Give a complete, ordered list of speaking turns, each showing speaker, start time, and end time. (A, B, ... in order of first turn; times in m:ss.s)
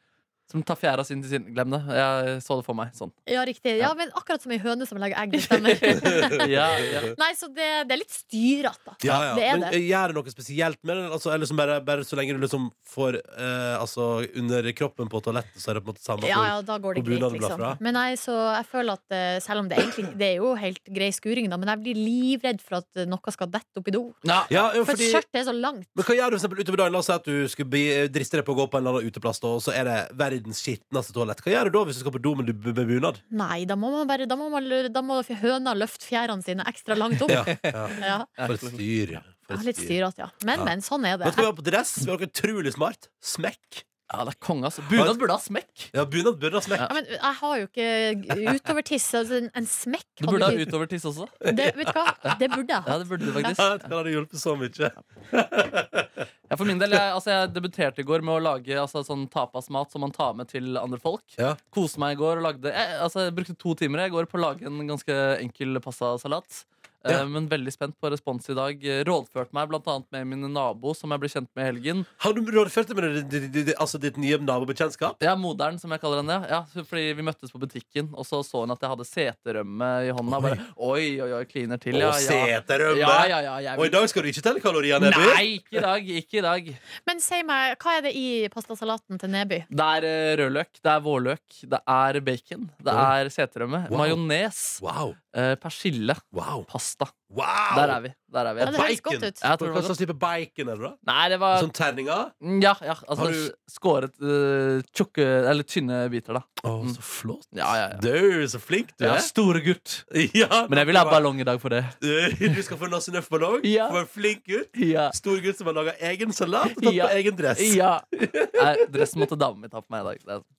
0:00.5-0:03.1 A
0:03.3-0:09.8 B
0:05.4-0:07.1 A
0:05.9-0:07.1 C
0:09.0-0:17.8 C
0:16.2-0:26.0 B
0:24.2-0:24.5 A
0:24.5-0:25.2 C
0:25.9-0:33.2 C
0:33.3-0:38.3 B
0:37.3-0:40.0 C
0:38.4-0:38.7 A
0:39.5-0:41.5 B
0:41.2-0:43.8 C
0:44.1-0:45.9 A
0:44.9-0:45.2 C
0:45.9-0:46.9 C
0:46.8-0:50.7 B
0:50.2-0:51.3 A
0:51.4-0:53.6 B
0:51.4-0:52.3 C
0:52.8-0:53.9 A
0:53.4-0:56.2 C
0:56.5-1:12.1 A
1:12.2-1:15.2 C
1:15.2-1:24.0 A
1:20.3-1:20.6 C
1:21.9-1:25.4 C
1:25.0-1:26.8 A
1:27.0-1:29.7 B
1:29.7-1:37.2 A
1:33.9-1:34.2 C
1:34.8-1:35.2 C
1:36.3-1:36.7 C
1:37.3-1:38.0 C
1:37.7-1:38.8 A
1:38.6-1:42.3 C
1:38.6-1:39.4 B
1:39.4-1:39.9 A
1:41.0-1:41.7 A
1:42.4-1:47.0 A
1:43.2-1:43.5 C
1:46.6-1:49.3 C
1:47.5-1:48.0 A
1:49.0-1:50.0 A
1:50.1-1:51.2 C
1:50.7-1:51.9 A
1:52.0-1:59.3 C
1:53.6-1:54.0 A
1:54.7-1:55.1 A
1:56.8-2:00.5 A